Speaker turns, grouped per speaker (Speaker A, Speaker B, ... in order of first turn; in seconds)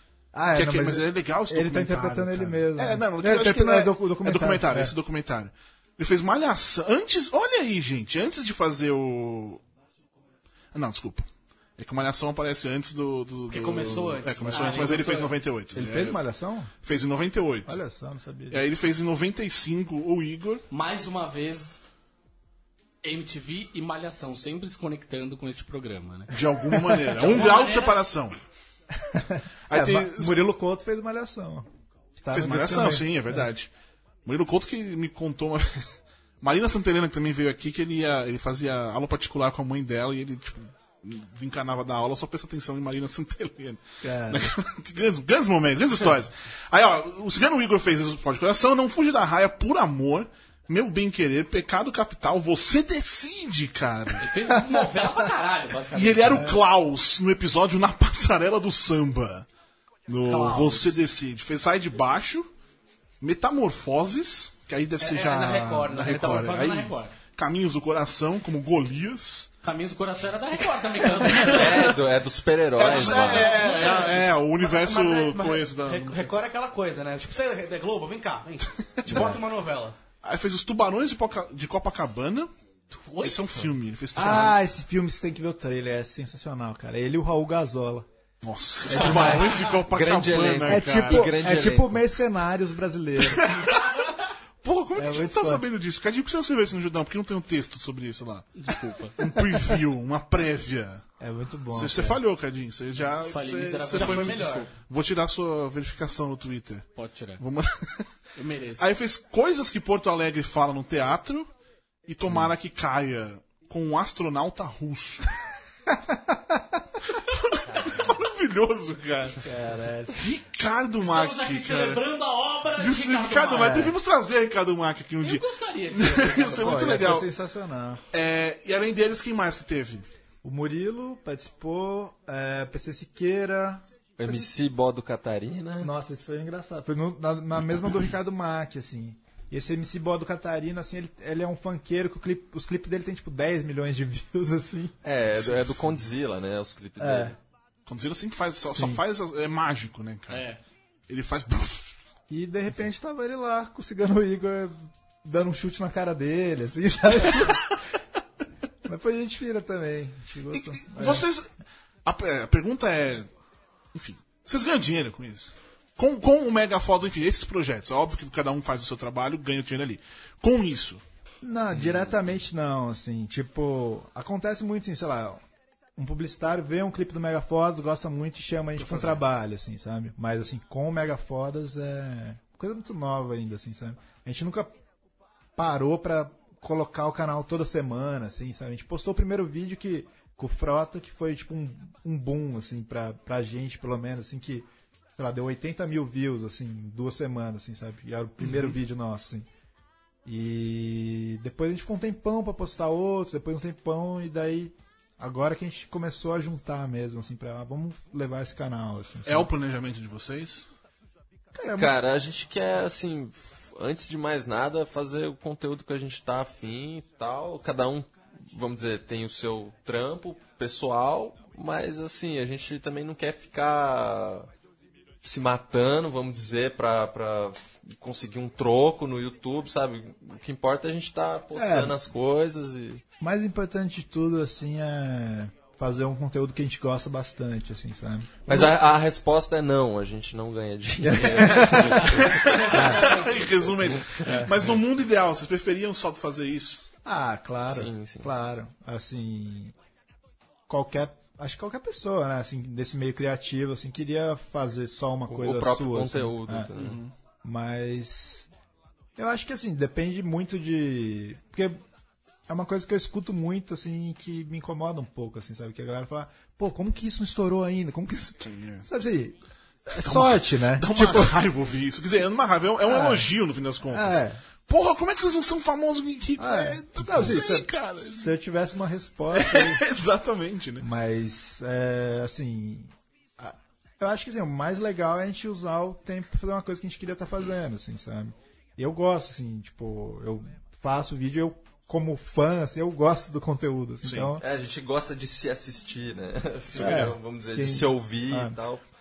Speaker A: 0.3-4.9, 15.7-16.7, 17.7-18.7, 29.0-33.4, 44.0-44.5, 54.5-55.1, 79.1-79.4, 84.2-88.1, 88.9-89.6, 90.6-93.5, 95.0-95.7, 101.2-102.2, 112.2-112.5, 116.1-116.6, 119.5-120.2, 123.5-124.0, 126.5-128.0, 130.4-134.5, 135.8-145.0, 147.0-147.4, 148.7-149.0, 152.3-157.8, 158.8-161.3, 171.4-175.4, 176.0-184.7, 185.6-199.5, 200.2-209.5, 211.6-212.0, 231.5-232.0, 233.2-238.8, 241.0-243.3, 244.2-244.7, 247.1-249.8, 250.7-256.7, 257.4-258.5, 259.2-261.8, 262.5-269.4, 269.9-271.4, 272.8-273.3, 273.9-274.4, 276.4-279.8, 280.8-294.4, 296.8-298.6
Speaker B: 0.5-9.6, 10.7-16.2, 16.8-17.8, 18.5-20.6, 26.3-28.4, 29.7-30.4, 32.3-33.7, 34.2-35.9, 36.4-54.2, 55.9-59.5, 60.1-62.5, 63.2-69.5, 72.8-76.4, 79.0-79.4, 80.2-82.5, 83.2-84.6, 88.4-91.3, 93.3-93.9, 94.6-101.1, 101.7-106.9, 107.4-108.1, 108.8-111.5, 112.1-115.3, 117.2-119.5, 120.2-122.0, 122.8-127.3, 128.1-130.1, 145.4-146.1, 147.9-150.5, 151.1-151.9, 160.5-161.5, 162.1-163.3, 163.9-171.0, 178.8-179.2, 209.3-210.7, 242.2-246.9, 256.8-257.1, 268.4-268.9, 270.0-278.3, 279.3-280.8, 294.1-294.4
Speaker C: 13.5-15.4, 65.0-66.8, 73.3-80.0, 82.9-83.7, 103.9-104.7
Speaker D: 20.7-21.8, 23.0-26.4, 26.9-28.0, 54.2-56.5, 60.3-61.0, 66.0-67.1, 69.6-72.0, 73.2-74.3, 98.6-99.1, 103.2-104.7, 107.0-107.4, 108.4-108.9, 121.0-123.8, 125.2-127.0, 150.3-150.6
Speaker E: 71.5-73.5, 89.9-92.0, 134.2-135.9, 145.0-147.4, 211.7-224.5, 225.2-233.0, 238.5-244.4, 247.7-248.3, 255.3-257.0, 294.4-298.8